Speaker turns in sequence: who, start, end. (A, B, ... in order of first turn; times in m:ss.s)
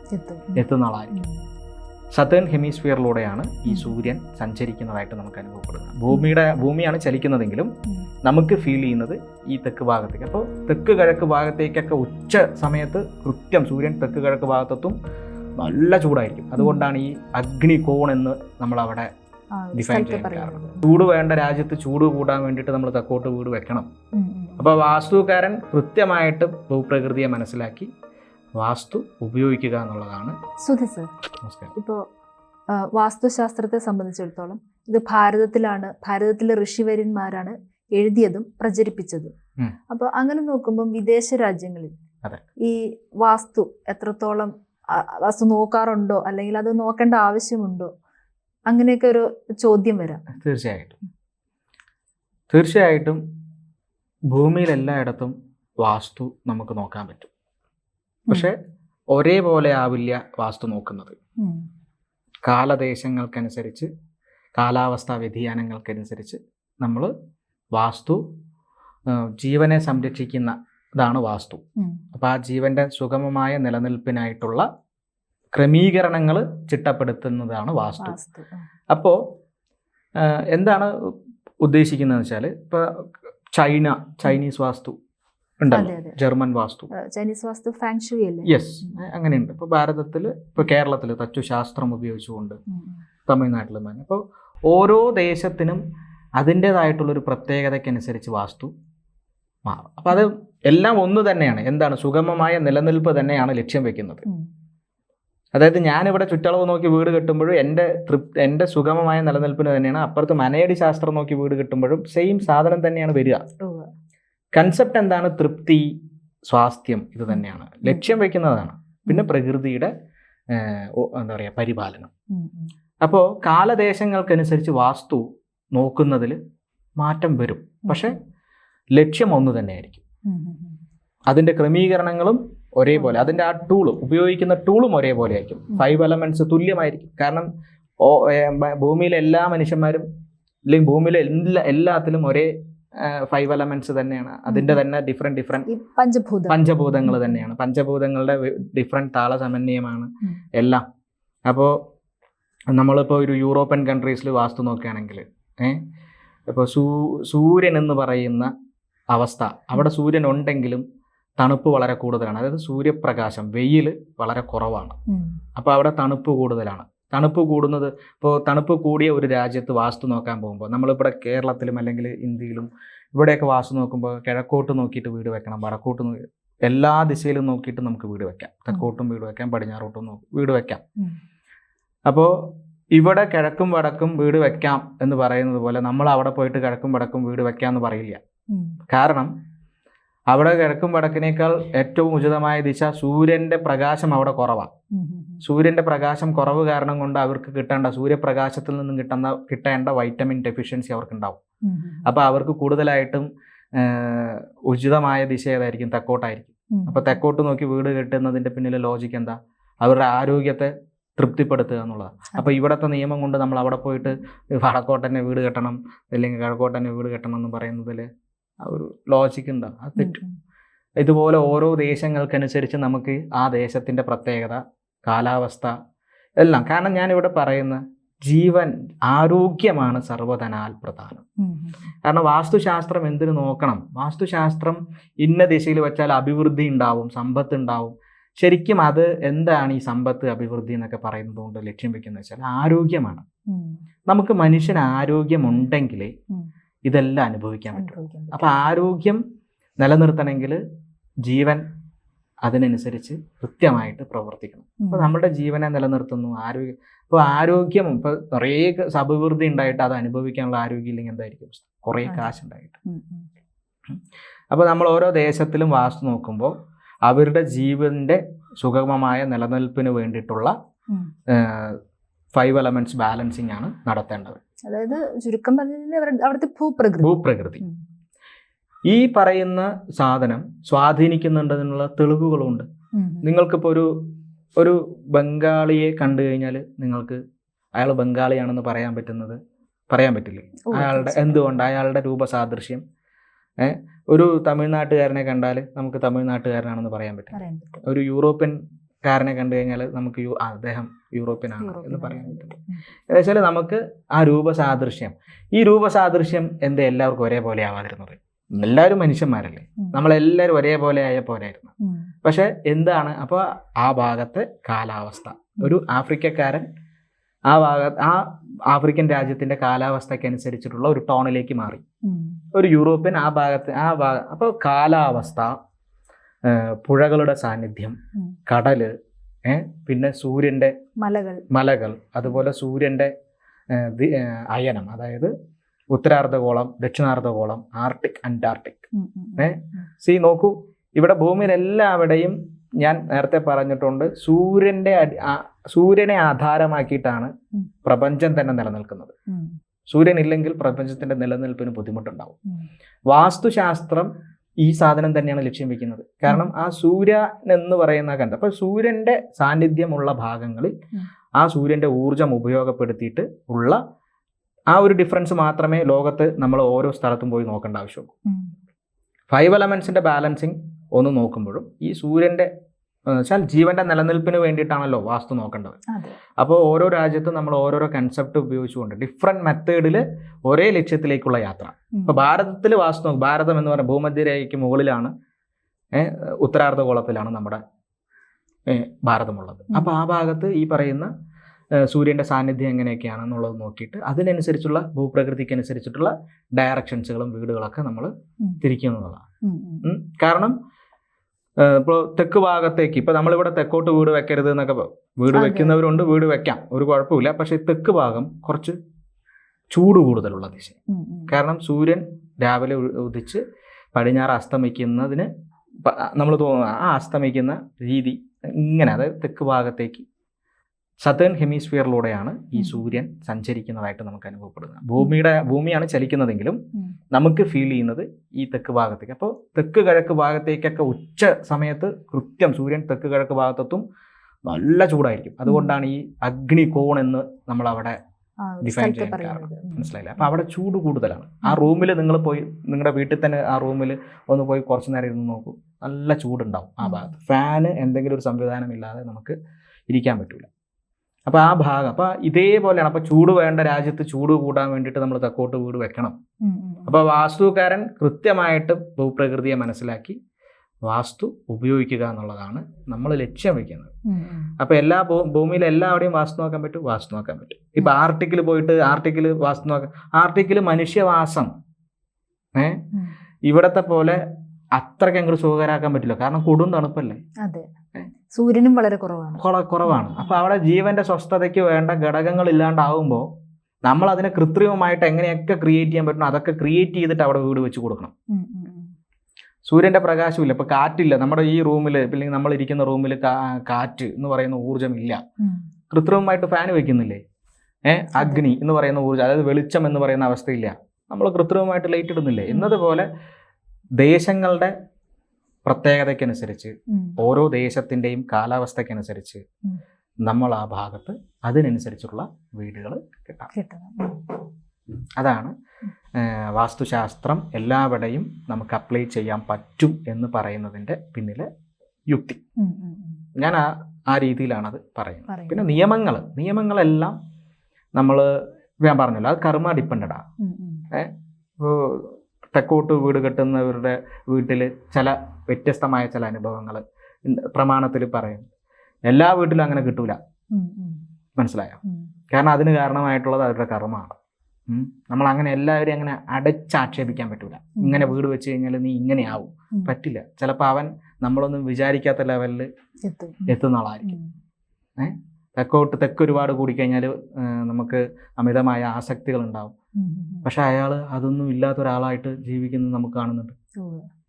0:00.1-0:01.3 A
0:00.6-0:01.1 B
0:02.1-0:07.7 B
0:03.7-0:04.0 A
0:08.2-0:15.0 B
0:15.6-0:19.1 B
0:16.6-0:16.8 A
0:19.5-0:20.8 A
0:19.8-0:23.9 B
0:24.1-0:24.7 A
0:24.6-0:27.9 B
0:28.6-0:30.3 B
0:30.6-0:31.1 A
0:31.4-0:31.7 B
0:31.8-0:32.0 A
0:32.7-0:39.3 A
0:39.9-0:41.9 A
0:42.6-0:47.9 A
0:48.7-0:50.2 A
0:50.3-0:51.0 B
0:52.5-0:53.2 B
0:54.3-0:57.3 B
0:58.3-0:58.5 B
0:59.1-1:01.2 B
1:01.4-1:01.6 A
1:02.4-1:03.9 B
1:04.6-1:07.1 B
1:07.7-1:08.2 B
1:09.1-1:11.6 B
1:11.8-1:12.0 A
1:12.1-1:14.6 B
1:15.5-1:18.2 B
1:18.0-1:18.7 A
1:18.9-1:19.2 B
1:20.2-1:21.1 B
1:21.6-1:22.8 B
1:23.5-1:25.0 B
1:25.6-1:26.9 B
1:25.7-1:26.2 A
1:26.9-1:28.5 A
1:28.4-1:32.6 B
1:32.7-1:33.0 A
1:33.3-1:35.8 B
1:36.4-1:38.7 B
1:39.6-1:44.2 B
1:45.5-1:53.4 B
1:53.6-1:53.9 A
1:54.5-1:55.9 B
1:56.5-1:59.9 B
2:00.5-2:02.1 B
2:02.3-2:02.7 A
2:03.0-2:06.4 B
2:07.0-2:08.2 B
2:07.8-2:08.1 A
2:08.9-2:10.0 B
2:10.2-2:10.8 A
2:11.3-2:17.4 B
2:13.0-2:13.3 A
2:18.0-2:20.0 B
2:20.7-2:25.7 B
2:24.5-2:24.8 A
2:25.6-2:27.4 A
2:26.5-2:30.8 B
2:31.5-2:31.8 B
2:32.7-2:35.8 B
2:36.5-2:38.5 B
2:39.1-2:40.8 B
2:41.4-2:45.0 B
2:45.1-2:45.4 A
2:45.6-3:00.8 B
3:02.1-3:08.2 B
3:08.5-3:08.8 A
3:08.9-3:09.3 B
3:10.3-3:14.7 B
3:14.9-3:15.4 A
3:15.4-3:21.4 B
3:21.6-3:22.1 A
3:22.0-3:38.0 B
3:26.7-3:27.2 A
3:38.6-3:40.2 B
3:40.0-3:40.4 A
3:41.0-3:45.7 B
3:46.4-3:51.2 B
3:51.4-3:51.8 A
3:52.0-4:03.2 B
4:03.5-4:03.8 A
4:04.1-4:06.1 B
4:06.8-4:09.2 B
4:07.7-4:08.5 A
4:09.8-4:10.6 B
4:11.2-4:11.6 B
4:12.4-4:22.8 B
4:14.8-4:15.1 A
4:22.0-4:22.3 A
4:22.8-4:23.3 A
4:24.5-4:26.5 B
4:27.0-4:30.5 B
4:31.3-4:31.8 B
4:32.3-4:34.4 B
4:34.7-4:37.8 A
4:37.0-4:37.6 B
4:38.9-4:42.6 B
4:42.9-4:43.2 A
4:43.2-4:44.0 B
4:44.6-4:47.2 B
4:47.8-4:49.4 B
4:49.9-4:52.8 B
4:50.6-4:51.4 A
4:53.6-5:02.5 B
4:57.3-4:57.8 A
5:01.6-5:02.8 A
5:03.1-5:11.7 B
5:11.8-5:12.1 A
5:12.2-5:16.6 B
5:17.5-5:21.8 B
5:22.0-5:22.4 A
5:22.5-5:25.5 B
5:26.4-5:28.0 B
5:28.5-5:28.9 B
5:29.4-5:30.7 B
5:31.0-5:31.4 A
5:31.5-5:33.1 B
5:33.7-5:35.3 B
5:35.9-5:47.3 B
5:38.9-5:39.8 A
5:47.8-5:49.1 B
5:49.3-5:49.6 A
5:49.9-5:52.3 B
5:53.1-5:54.1 B
5:54.6-6:00.7 B
6:01.4-6:03.8 B
6:04.7-6:08.1 B
6:08.2-6:08.5 A
6:09.3-6:12.5 B
6:13.1-6:15.8 B
6:15.9-6:16.2 A
6:16.4-6:25.1 B
6:21.9-6:22.2 A
6:25.9-6:27.6 B
6:28.7-6:31.1 B
6:31.8-6:39.2 B
6:39.4-6:39.8 A
6:39.8-6:40.5 B
6:41.6-6:48.8 B
6:45.3-6:45.8 A
6:49.7-6:50.8 B
6:50.9-6:51.3 A
6:51.3-6:53.4 B
6:53.9-6:55.3 B
6:55.8-7:00.0 B
7:01.0-7:06.6 B
7:02.6-7:02.8 A
7:07.1-7:13.8 B
7:14.4-7:18.0 B
7:15.4-7:15.7 A
7:18.4-7:19.9 A
7:18.6-7:29.4 B
7:26.8-7:27.1 A
7:29.9-7:30.5 B
7:31.3-7:36.1 B
7:36.4-7:37.0 A
7:36.9-7:40.2 B
7:40.8-7:43.9 B
7:44.0-7:44.5 A
7:44.6-7:51.5 B
7:52.6-7:52.8 B
7:53.5-7:54.2 B
7:54.7-7:57.2 B
7:57.4-7:57.7 A
7:58.3-8:00.3 A
7:59.4-8:03.3 B
8:03.8-8:08.1 B
8:08.3-8:08.9 A
8:09.7-8:15.2 B
8:15.4-8:15.6 A
8:15.9-8:17.2 B
8:17.9-8:23.1 B
8:18.2-8:18.4 A
8:22.5-8:22.7 A
8:24.0-8:24.7 B
8:25.6-8:29.4 B
8:26.9-8:27.2 A
8:30.2-8:33.5 B
8:33.5-8:34.4 A
8:35.2-8:35.5 B
8:36.2-8:41.5 B
8:42.1-8:42.4 B
8:42.6-8:43.2 A
8:43.4-8:47.2 B
8:45.3-8:45.7 A
8:48.0-8:48.3 B
8:48.8-8:50.2 B
8:50.4-8:50.8 A
8:50.9-8:58.5 B
8:59.1-9:00.2 B
9:00.5-9:01.0 A
9:01.4-9:01.8 B
9:02.3-9:04.2 B
9:04.7-9:12.7 B
9:07.8-9:08.1 A
9:13.0-9:13.5 A
9:13.5-9:14.2 B
9:15.0-9:19.7 B
9:20.0-9:20.5 A
9:20.4-9:23.5 B
9:23.8-9:24.1 A